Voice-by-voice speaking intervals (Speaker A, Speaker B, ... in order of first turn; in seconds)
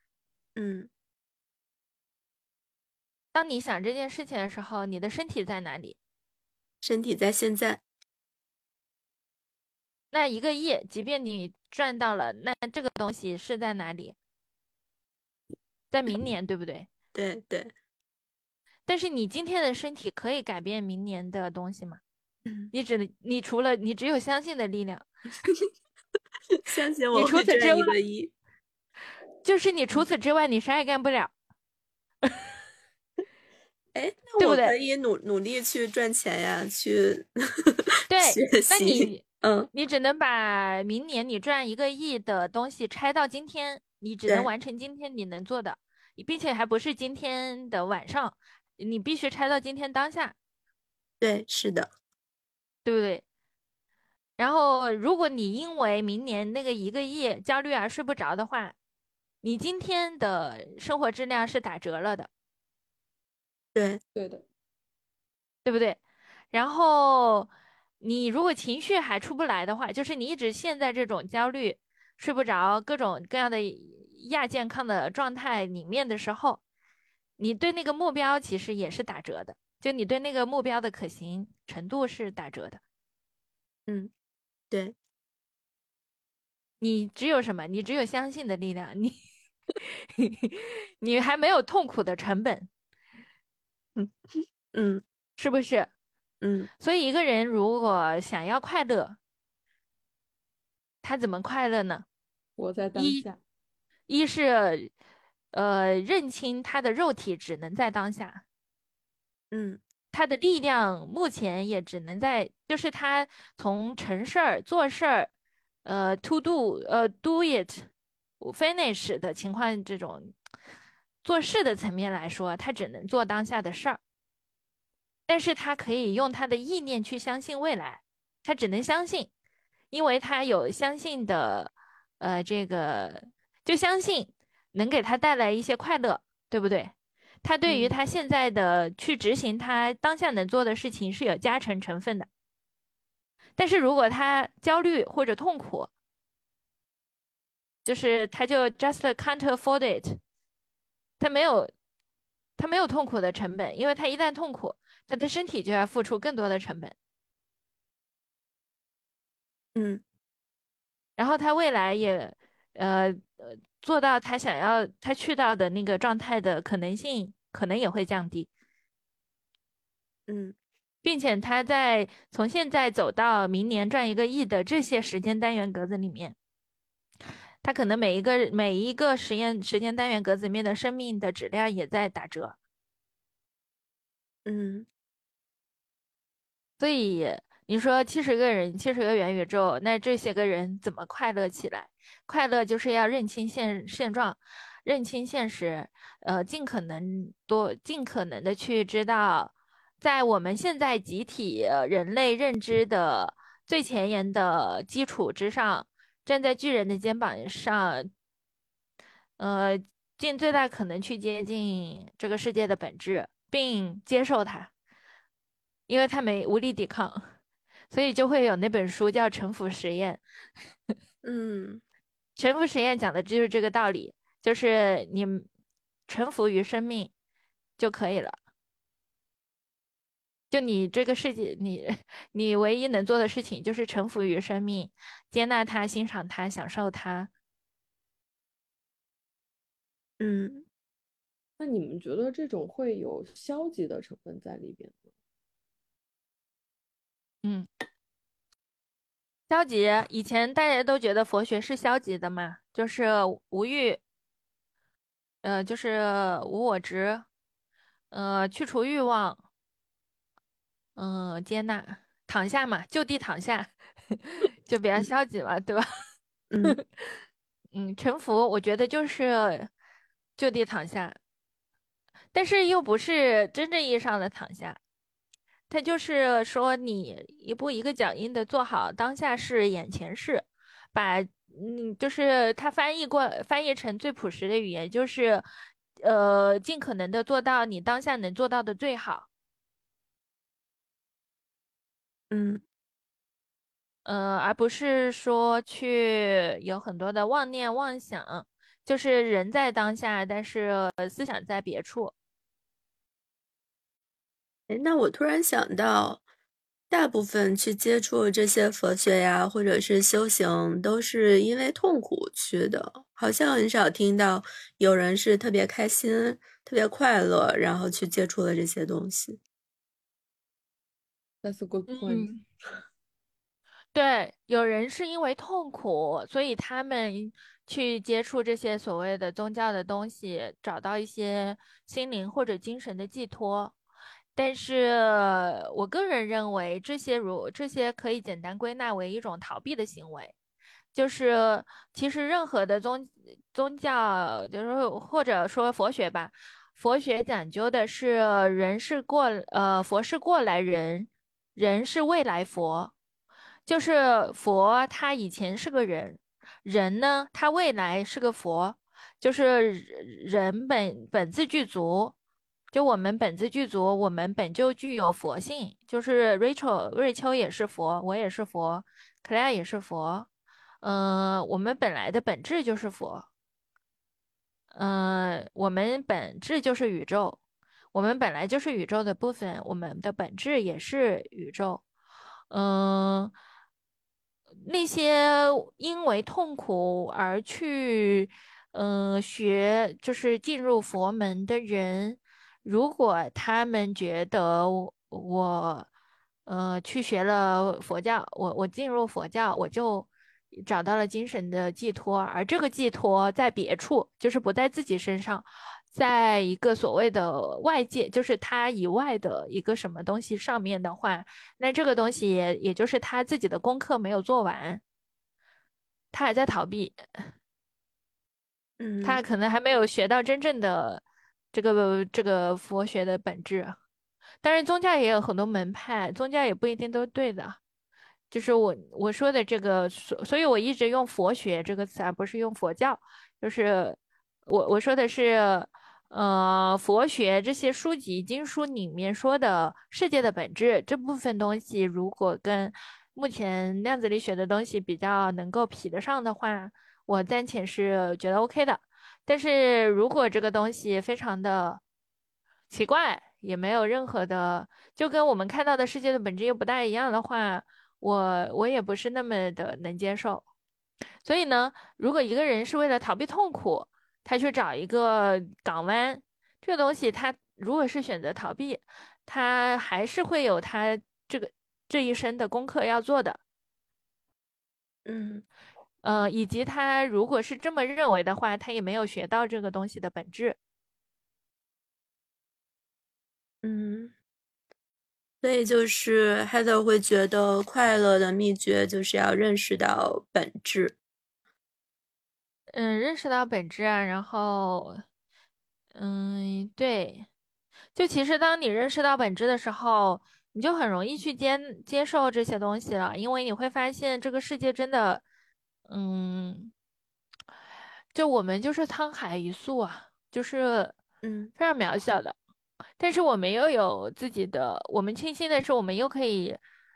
Speaker A: 0.6-0.9, 6.8-7.8, 17.1-17.7, 22.4-22.7, 26.6-28.3, 33.9-39.7, 51.2-51.9, 63.7-64.0, 94.7-95.0, 96.4-96.7, 109.5-109.8, 137.7-137.9, 159.7-160.0, 170.3-170.6, 184.4-184.9, 221.2-221.8, 240.2-240.7, 266.5-266.8, 292.3-292.6, 304.7-306.2, 306.9-319.4, 418.8-419.2, 475.1-475.4, 483.6-484.1, 485.4-490.9, 511.2-511.5
Speaker B: 3.3-6.0, 10.1-14.2, 15.9-16.9, 18.9-22.0, 22.7-25.1, 27.1-28.0, 29.4-31.3, 34.4-34.7, 38.1-50.4, 52.8-53.2, 54.4-58.8, 59.4-62.3, 65.6-66.0, 66.5-67.5, 68.0-76.6, 77.4-82.8, 86.8-89.2, 89.8-92.7, 95.4-95.9, 96.8-99.2, 101.0-102.0, 102.9-103.2, 104.1-104.9, 105.5-108.4, 110.1-115.3, 115.8-120.3, 121.2-124.0, 125.3-129.3, 129.9-142.3, 143.6-145.9, 147.8-150.2, 151.2-151.7, 152.6-156.9, 161.2-168.5, 171.0-176.3, 177.6-182.6, 186.8-208.1, 209.4-214.7, 215.9-217.3, 217.9-220.2, 222.4-225.4, 226.1-227.1, 227.8-228.3, 230.5-237.3, 249.5-254.0, 255.4-257.2, 258.1-259.4, 260.9-265.9, 266.6-267.2, 267.7-269.7, 270.4-271.2, 272.3-274.8, 275.7-285.4, 286.0-289.3, 294.0-302.1, 321.9-322.4, 323.9-333.7, 334.4-340.3, 340.9-352.9, 353.6-362.1, 362.7-370.3, 370.8-373.3, 374.7-377.4, 377.9-381.8, 382.5-383.3, 384.6-395.9, 396.4-414.8, 416.1-417.3, 419.0-423.8, 424.4-427.6, 428.3-451.8, 452.7-460.4, 461.2-473.4, 476.0-480.6, 492.7-495.0, 495.9-497.3, 497.9-505.2, 505.9-506.7, 508.1-510.9, 511.6-512.4, 513.0-516.6
Speaker C: 64.1-64.4, 102.6-103.4, 241.6-245.0, 321.4-322.3